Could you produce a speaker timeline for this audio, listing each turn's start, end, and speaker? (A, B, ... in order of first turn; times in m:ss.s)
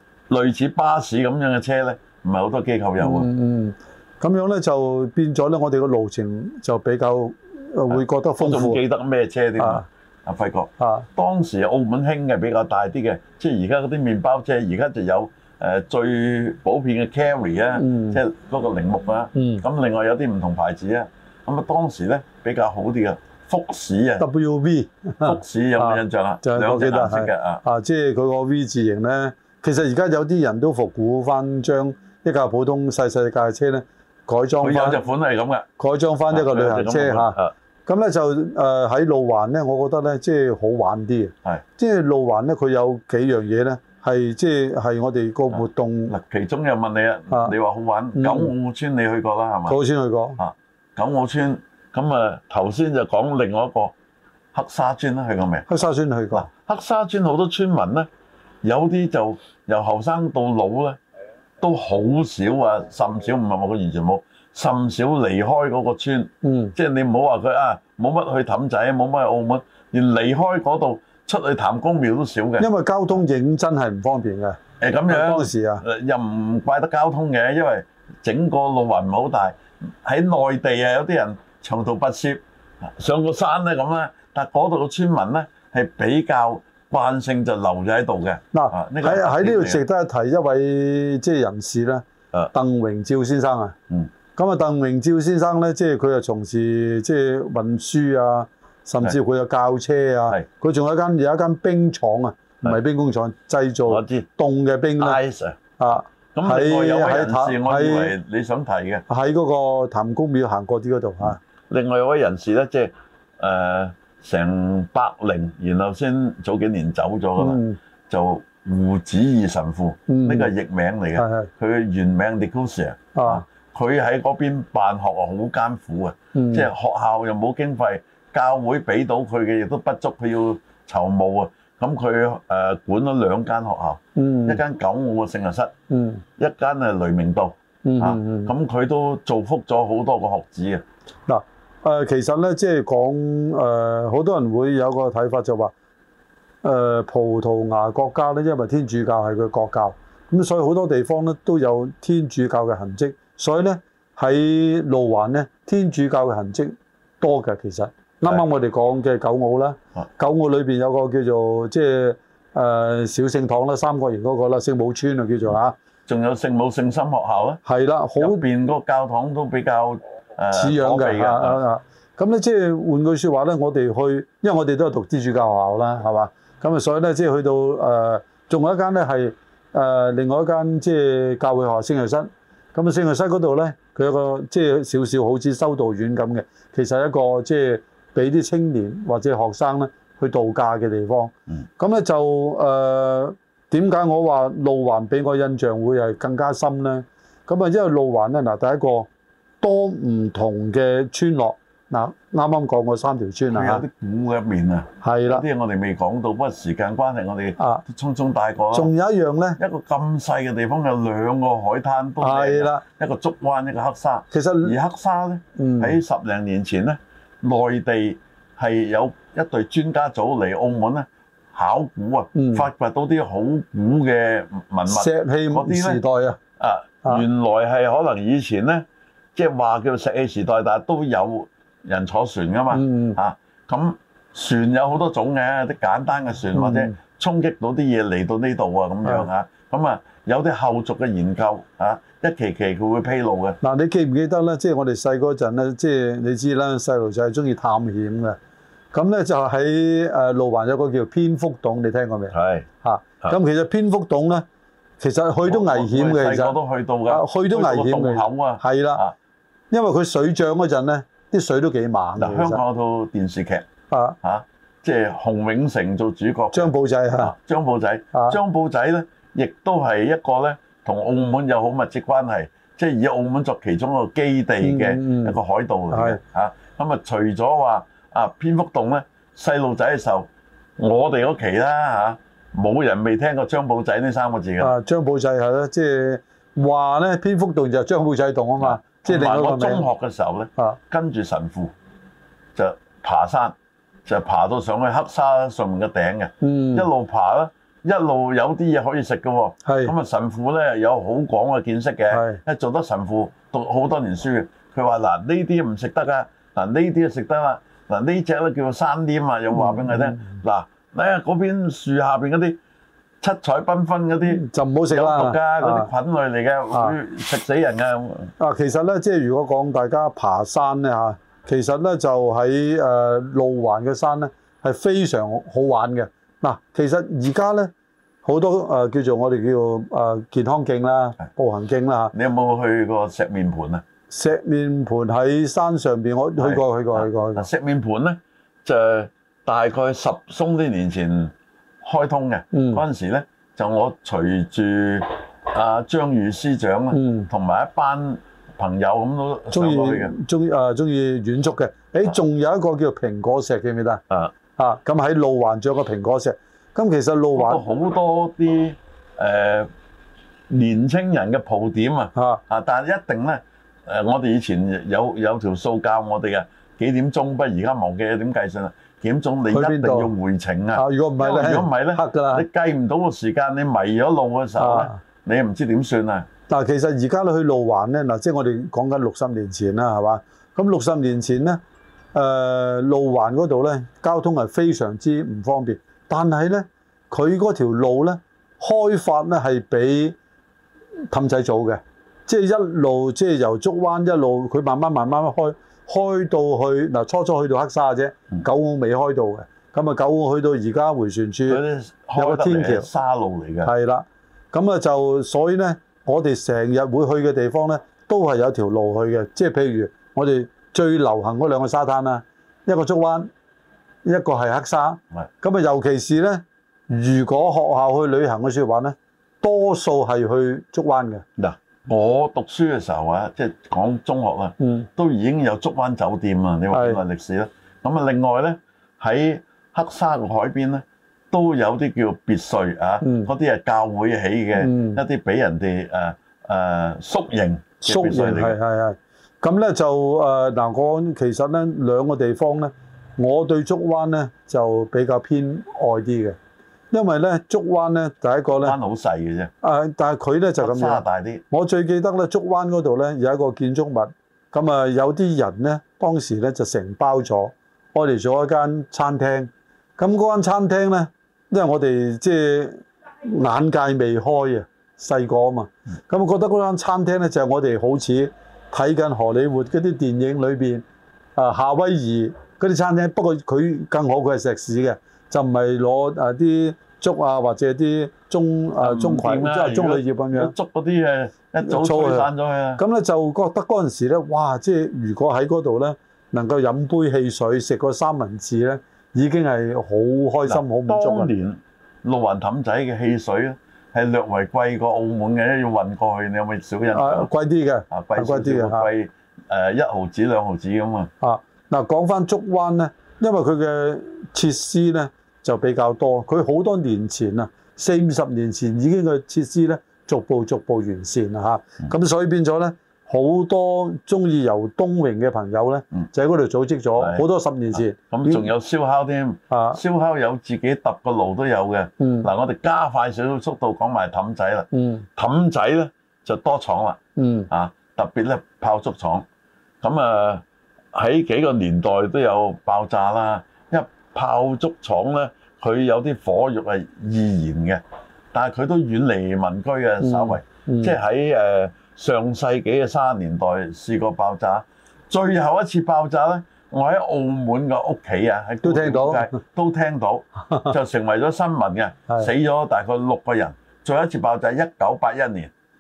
0:00.3-0:03.3 A
0:03.0-0:08.8 B
0:07.9-0:24.2 A
0:09.6-0:09.9 B
0:10.8-0:11.1 B
0:17.8-0:18.2 B
0:19.4-0:19.6 B
0:24.2-0:35.0 B
0:25.2-0:27.6 A
0:34.6-0:35.7 A
0:35.8-0:46.1 B
0:36.3-0:37.5 A
0:45.5-0:49.8 A
0:47.3-0:47.6 B
0:48.2-0:48.5 B
0:49.7-0:50.4 B
0:50.4-0:54.0 A
0:54.5-0:55.6 A
0:55.7-0:56.5 B
0:56.3-0:58.1 A
0:58.6-1:01.0 A
1:01.6-1:12.7 A
1:06.4-1:06.8 B
1:12.6-1:15.8 B
1:14.8-1:29.8 A
1:28.5-1:33.8 B
1:34.4-1:45.2 B
1:43.9-1:44.3 A
1:45.0-1:45.6 A
1:45.8-1:48.2 B
1:46.3-1:49.0 A
1:49.1-1:51.4 B
1:51.7-2:15.7 A
1:57.4-1:57.8 B
2:00.1-2:00.5 B
2:01.2-2:01.5 B
2:03.2-2:03.4 B
2:06.4-2:06.7 B
2:14.2-2:14.6 B
2:15.9-2:16.2 B
2:16.4-2:20.8 A
2:17.8-2:18.5 B
2:21.3-2:25.7 B
2:26.6-2:45.8 B
2:46.1-2:47.6 A
2:47.6-2:48.4 B
2:48.2-2:51.6 A
2:50.5-3:19.1 B
3:19.6-3:23.8 B
3:23.5-3:28.9 A
3:25.0-3:25.4 B
3:27.6-3:27.8 B
3:28.7-3:29.6 B
3:29.6-3:46.0 A
3:32.2-3:32.8 B
3:34.3-3:34.8 B
3:35.6-3:36.0 B
3:42.4-3:42.7 B
3:44.9-3:46.4 B
3:46.6-4:03.6 A
3:52.7-3:53.2 B
3:56.6-3:57.0 B
4:03.6-4:08.4 B
4:08.9-4:14.4 B
4:12.3-4:12.7 A
4:15.0-4:16.6 B
4:15.4-4:19.1 A
4:17.1-4:19.0 B
4:19.7-4:22.6 B
4:22.2-4:23.7 A
4:23.9-4:24.2 B
4:24.2-4:44.7 A
4:26.5-4:27.3 B
4:28.1-4:28.4 B
4:34.6-4:35.4 B
4:35.9-4:36.2 B
4:44.6-4:49.8 B
4:48.6-4:51.7 A
4:52.6-4:53.6 A
4:54.1-5:12.6 A
4:56.4-4:56.9 B
4:59.6-4:59.9 B
5:02.1-5:02.4 B
5:09.5-5:10.4 B
5:13.2-5:18.3 A
5:14.3-5:15.9 B
5:18.4-5:27.7 B
5:28.2-5:32.1 B
5:32.1-5:33.8 A
5:34.1-5:37.5 B
5:36.4-5:50.1 A
5:42.5-5:42.8 B
5:46.9-5:47.3 B
5:49.5-5:54.0 B
5:54.6-5:57.6 B
5:57.4-5:59.7 A
6:00.5-6:16.3 A
6:02.2-6:02.4 B
6:09.5-6:10.1 B
6:10.8-6:12.5 B
6:14.6-6:15.0 B
6:16.5-6:21.6 B
6:22.1-6:30.2 B
6:31.1-6:41.6 B
6:41.5-6:43.7 A
6:42.2-6:42.9 B
6:43.6-6:53.3 B
6:54.0-7:01.2 B
7:01.4-7:18.6 A
7:04.6-7:04.9 B
7:06.7-7:07.0 B
7:13.0-7:13.3 B
7:14.6-7:15.0 B
7:17.8-7:26.4 B
7:26.9-7:28.8 B
7:28.5-7:29.5 A
7:29.6-7:50.8 B
7:30.6-7:31.4 A
7:51.4-8:00.5 B
7:58.8-8:02.8 A
8:01.6-8:11.3 B
8:10.5-8:17.3 A
8:16.9-8:18.9 B
8:17.9-8:21.1 A
8:21.2-8:38.5 B
8:37.0-8:37.2 A
8:38.1-8:49.2 A
8:39.5-8:39.8 B
8:42.0-8:42.3 B
8:44.7-8:45.1 B
8:47.2-8:47.5 B
8:49.8-8:57.8 A
8:58.3-9:15.5 A
9:00.0-9:01.0 B
9:08.6-9:09.4 B
9:10.5-9:10.8 B